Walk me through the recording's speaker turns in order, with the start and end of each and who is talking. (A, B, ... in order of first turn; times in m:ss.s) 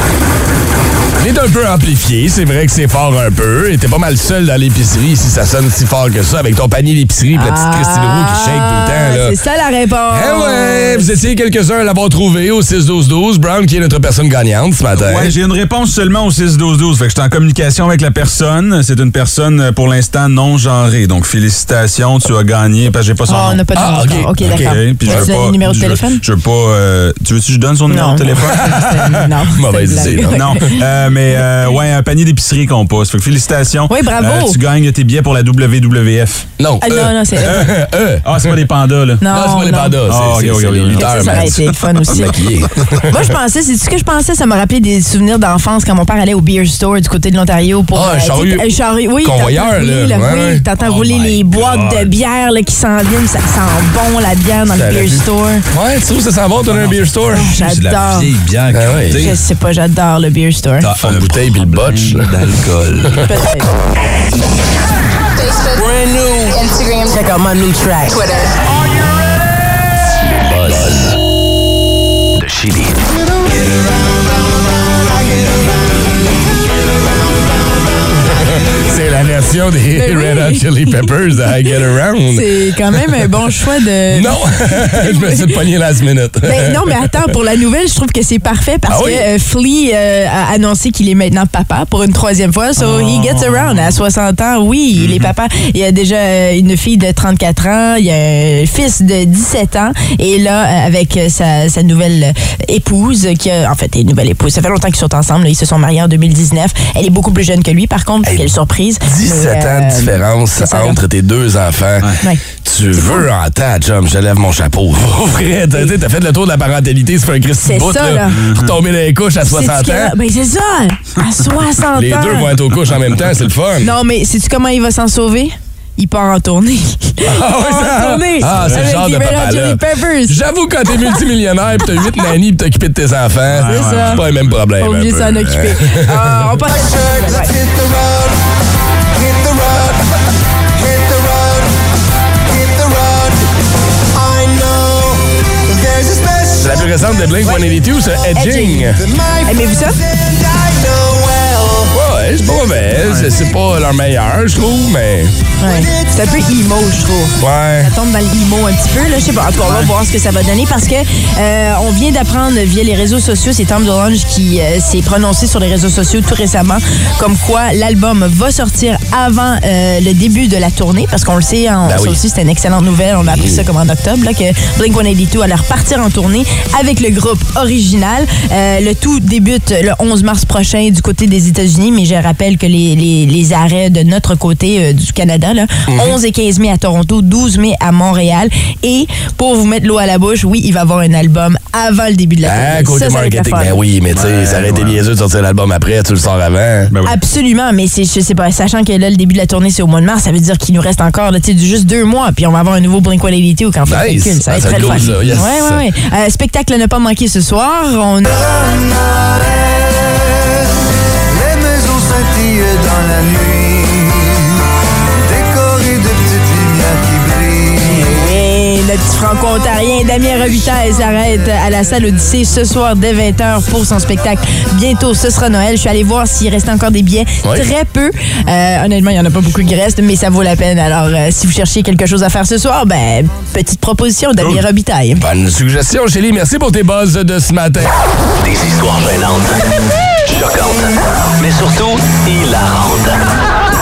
0:01.2-0:09.4 A
0:07.3-0:11.1 B
0:10.1-0:15.3 A
0:14.9-0:23.6 C
0:23.3-0:26.2 B
0:23.7-0:25.3 A
0:24.4-0:28.7 C
0:27.9-0:30.8 B
0:28.6-0:30.6 A
0:30.0-0:36.5 C
0:33.9-0:34.6 B
0:36.6-0:38.5 A
0:36.8-0:37.7 B
0:37.4-0:39.2 C
0:39.2-0:40.0 B
0:39.2-0:43.1 A
0:40.0-0:42.2 C
0:40.9-0:42.4 B
0:43.1-0:55.6 B
0:47.9-0:50.7 A
0:50.8-0:52.1 C
0:54.7-0:57.5 A
0:56.6-0:59.4 C
0:57.3-0:58.3 B
0:58.7-0:59.3 A
0:59.1-1:00.9 B
1:00.8-1:03.2 C
1:01.0-1:03.3 A
1:03.2-1:03.7 B
1:05.4-1:06.8 D
1:07.0-1:08.3 B
1:08.3-1:08.6 D
1:10.4-1:11.1 E
1:12.4-1:13.0 E
1:13.3-1:14.1 D
1:14.9-1:15.7 D
1:18.3-1:23.2 A
1:19.9-1:21.1 B
1:22.3-1:25.6 B
1:24.1-1:27.3 A
1:26.4-1:51.0 B
1:28.9-1:29.2 A
1:32.8-1:34.0 C
1:35.0-1:35.3 C
1:48.2-2:00.1 A
1:52.9-1:53.2 B
1:57.6-1:58.4 B
1:58.3-1:58.7 C
1:59.4-2:02.5 B
2:01.9-2:03.9 A
2:03.8-2:10.4 B
2:07.2-2:16.3 A
2:13.5-2:14.5 C
2:13.7-2:14.2 B
2:14.8-2:17.5 B
2:16.6-2:18.4 D
2:19.1-2:20.0 D
2:20.8-2:21.8 D
2:22.5-2:23.5 D
2:24.1-2:27.7 D
2:26.6-2:29.0 A
2:28.3-2:30.0 B
2:29.0-2:31.9 D
2:31.9-2:35.3 A
2:33.0-2:33.3 C
2:35.6-3:13.8 B
2:35.6-2:36.3 D
2:37.4-2:37.9 A
2:39.6-2:39.9 C
2:51.8-2:52.2 A
2:53.3-2:53.6 A
3:05.9-3:06.2 A
3:12.4-3:16.9 A
3:14.1-3:15.0 C
3:16.9-3:17.2 C
3:17.0-3:28.2 B
3:23.9-3:25.8 A
3:24.8-3:25.3 C
3:28.2-3:30.6 D
3:31.3-3:34.5 D
3:35.2-3:38.4 D
3:38.0-3:55.2 B
3:55.2-3:57.9 A
3:58.4-3:59.6 E
4:00.2-4:03.2 E